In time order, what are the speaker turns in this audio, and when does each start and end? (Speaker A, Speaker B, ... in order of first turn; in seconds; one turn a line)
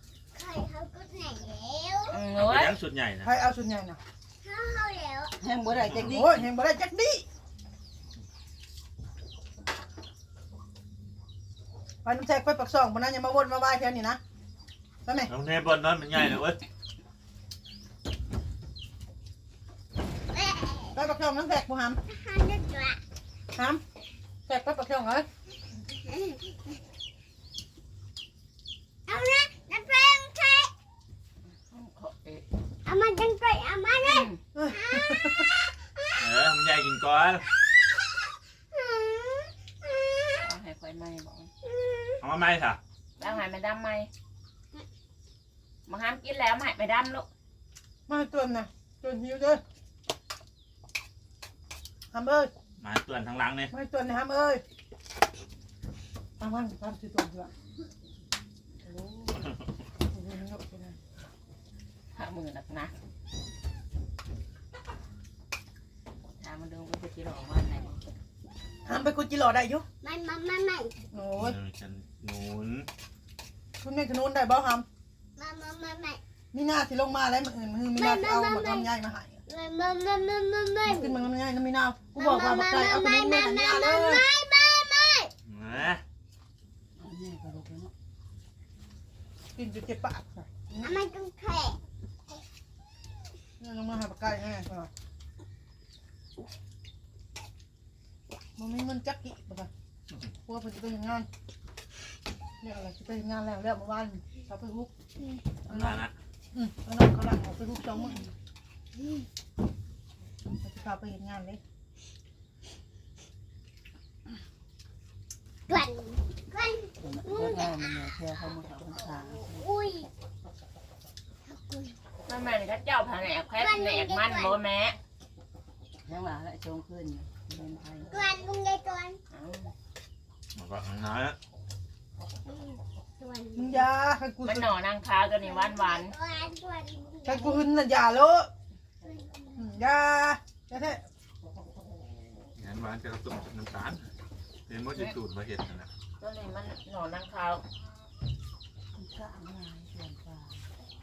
Speaker A: 0.3-2.2
Speaker B: 2.1-2.8
Speaker C: 2.4-3.3
Speaker D: 3.2-4.0
Speaker A: 4.4-5.3
Speaker E: 5.4-6.4
Speaker D: 6.0-7.3
Speaker D: 12.0-14.2
Speaker D: 15.1-15.3
Speaker C: 15.3-16.6
Speaker A: 20.3-21.0
Speaker D: 20.9-22.0
Speaker A: 22.1-23.0
Speaker D: 23.6-23.8
Speaker D: 24.5-25.3
Speaker A: 26.0-26.6
Speaker A: 29.1-30.7
Speaker B: 31.7-32.5
Speaker A: 32.9-36.1
Speaker B: 34.0-34.4
Speaker D: 34.5-35.5
Speaker C: 36.2-37.5
Speaker A: 38.7-40.5
Speaker B: 40.4-41.5
Speaker A: 41.6-42.2
Speaker C: 42.2-42.8
Speaker B: 43.2-44.1
Speaker B: 45.9-47.3
Speaker D: 48.1-49.6
Speaker D: 52.1-52.5
Speaker C: 52.8-53.7
Speaker D: 53.7-54.6
Speaker D: 56.4-57.5
Speaker D: 59.0-59.5
Speaker D: 60.1-61.0
Speaker B: 62.1-62.9
Speaker B: 66.4-68.0
Speaker D: 68.8-69.8
Speaker A: 70.0-71.0
Speaker D: 71.1-71.6
Speaker C: 71.4-72.9
Speaker D: 73.8-74.9
Speaker A: 75.4-76.2
Speaker D: 76.5-79.4
Speaker A: 78.0-78.9
Speaker A: 79.5-81.2
Speaker D: 80.8-84.2
Speaker A: 82.2-85.3
Speaker C: 85.5-86.0
Speaker E: 87.0-87.9
Speaker D: 89.6-90.9
Speaker A: 90.8-91.8
Speaker D: 93.6-94.9
Speaker D: 98.6-99.7
Speaker D: 100.5-101.3
Speaker D: 102.6-104.9
Speaker C: 105.7-106.1
Speaker D: 105.7-106.0
Speaker D: 106.5-108.3
Speaker D: 110.6-111.6
Speaker A: 115.7-117.8
Speaker E: 117.0-119.7
Speaker A: 119.5-120.1
Speaker A: 121.5-122.0
Speaker B: 122.3-125.0
Speaker A: 123.6-124.6
Speaker E: 126.0-128.2
Speaker A: 128.1-129.2
Speaker B: 129.3-129.7
Speaker C: 130.5-131.4
Speaker A: 132.4-133.9
Speaker D: 133.6-134.7
Speaker B: 134.4-136.1
Speaker A: 135.4-137.6
Speaker D: 137.3-138.5
Speaker A: 139.0-139.7
Speaker D: 139.6-141.0
Speaker C: 142.6-144.1
Speaker C: 144.7-145.9
Speaker B: 146.2-147.6
Speaker E: 149.0-150.6